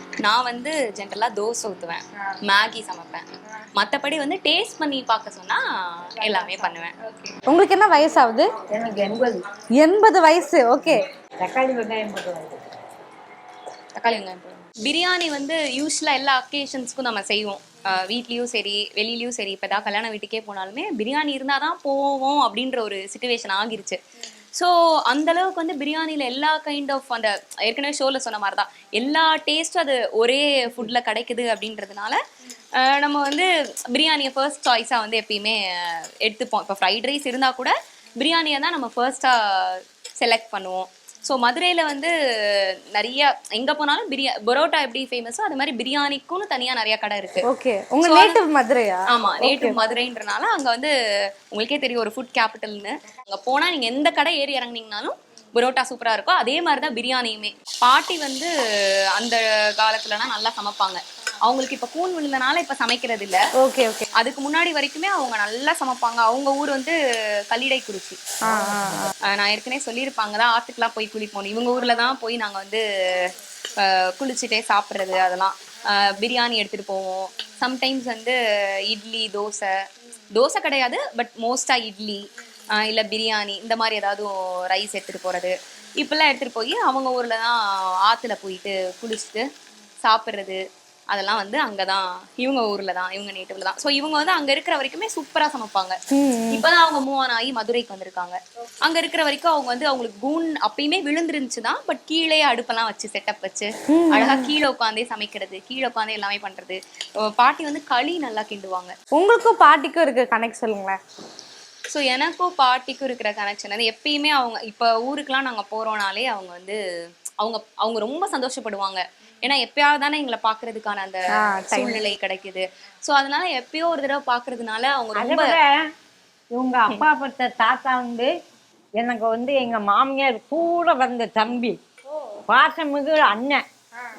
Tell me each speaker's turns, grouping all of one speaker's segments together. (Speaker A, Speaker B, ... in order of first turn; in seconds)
Speaker A: 0.2-3.2, 3.8-6.9, 13.9-24.0, 24.6-32.2, 32.8-47.4, 48.0-48.4, 49.1-50.9, 51.5-58.5, 59.2-63.4, 64.2-67.0, 67.5-68.2, 69.2-79.7, 80.3-89.5, 90.0-96.0, 96.5-108.9, 111.9-116.8, 117.4-125.6
Speaker B: 7.1-8.5, 9.8-11.1, 47.5-49.8, 63.6-64.1, 68.5-69.1, 96.1-96.6, 103.9-104.5, 109.2-111.0, 121.4-122.0
Speaker C: 8.7-9.4, 11.4-12.6, 125.2-125.9, 126.5-128.3, 129.0-131.8, 132.5-133.6